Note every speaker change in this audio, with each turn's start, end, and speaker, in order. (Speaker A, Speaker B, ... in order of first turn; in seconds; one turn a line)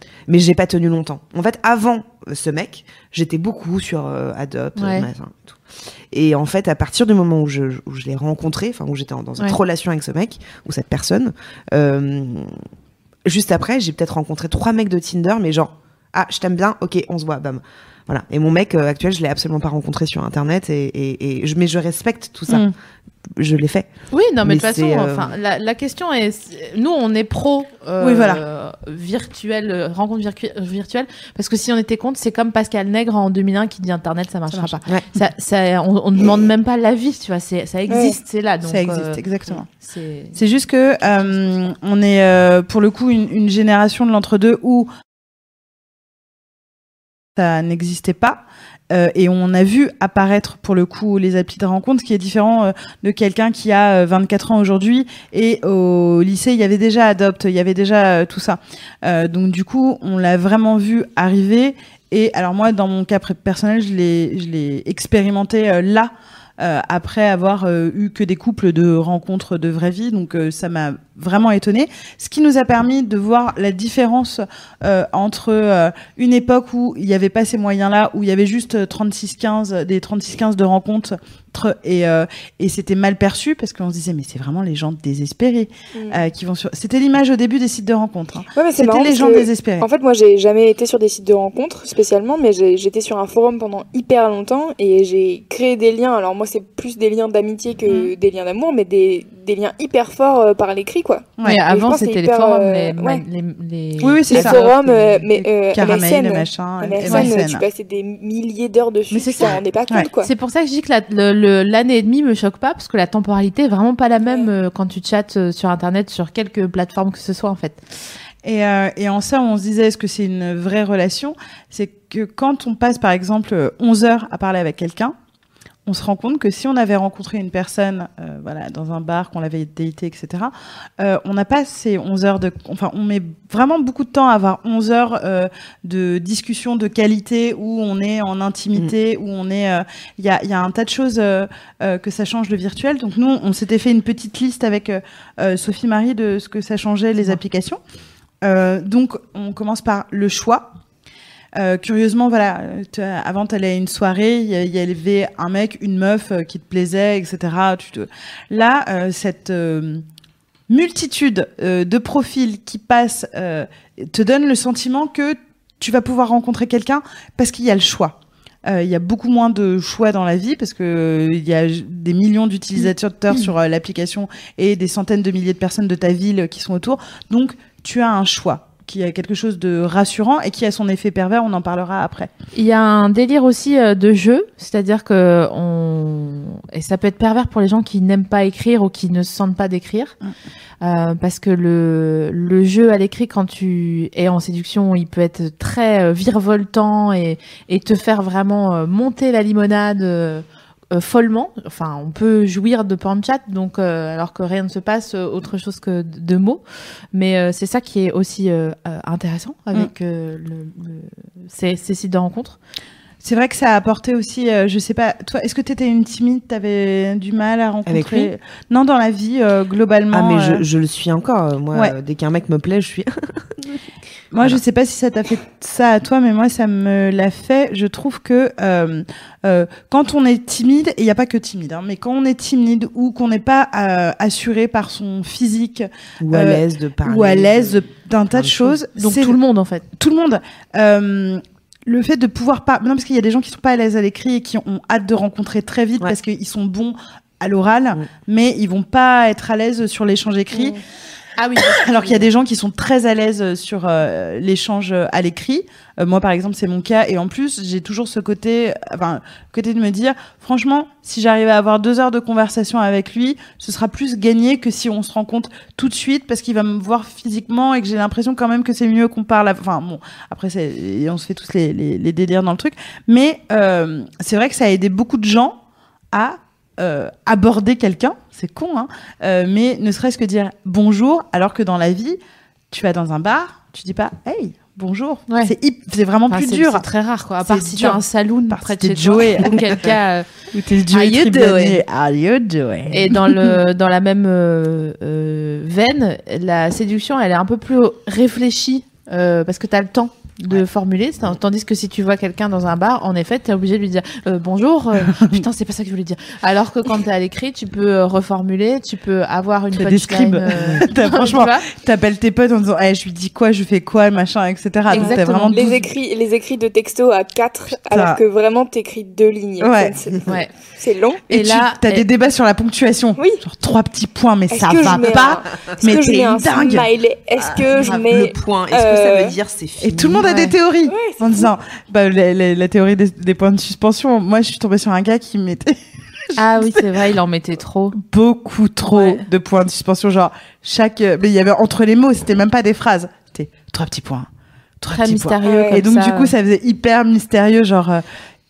Speaker A: 0.3-5.6
Speaker B: 4.8-5.1
Speaker A: 6.1-12.5
Speaker A: 13.2-22.7
Speaker A: 23.4-23.9
Speaker B: 24.1-39.2
Speaker A: 24.4-25.3
Speaker C: 28.0-28.4
Speaker D: 37.9-38.1
Speaker C: 38.6-39.7
Speaker B: 39.7-40.4
Speaker C: 40.3-44.9
Speaker C: 47.4-89.9
Speaker D: 85.9-86.2
Speaker D: 88.5-103.2
Speaker B: 101.4-105.2
Speaker C: 104.0-104.6
Speaker D: 104.3-110.3
Speaker C: 105.4-107.6
Speaker B: 107.0-107.4
Speaker B: 109.1-109.6
Speaker C: 109.5-110.1
Speaker B: 110.2-117.8
Speaker C: 118.4-125.1
Speaker C: 125.8-147.8
Speaker C: 148.4-150.7
Speaker C: 151.5-160.0
Speaker C: 160.7-182.3
Speaker B: 182.5-190.1
Speaker B: 190.8-206.6
Speaker B: 207.1-212.6
Speaker C: 213.2-220.6
Speaker A: 217.8-218.3
Speaker A: 220.1-223.8
Speaker C: 224.3-239.4
Speaker A: 236.2-237.8
Speaker A: 238.3-238.8
Speaker B: 238.9-239.8
Speaker C: 240.0-250.8
Speaker B: 251.4-252.2
Speaker C: 251.6-275.6
Speaker C: 276.1-282.2
Speaker C: 282.7-286.9
Speaker B: 285.3-285.5
Speaker B: 286.3-290.3
Speaker C: 287.4-289.9
Speaker C: 290.5-293.6
Speaker B: 290.9-291.8
Speaker B: 292.9-311.6
Speaker C: 305.0-305.4
Speaker C: 309.7-315.9
Speaker B: 314.9-315.5
Speaker D: 314.9-321.2
Speaker C: 317.9-318.2
Speaker C: 319.6-320.0
Speaker B: 320.2-320.5
Speaker B: 321.3-322.1
Speaker C: 321.3-327.7
Speaker D: 324.5-329.4
Speaker A: 327.9-330.3
Speaker C: 329.8-335.8
Speaker B: 330.2-330.5
Speaker D: 330.9-331.5
Speaker C: 336.3-336.9
Speaker B: 336.4-338.0
Speaker C: 337.9-344.3
Speaker B: 338.9-339.2
Speaker C: 344.8-348.0
Speaker B: 344.9-346.3
Speaker D: 345.4-345.8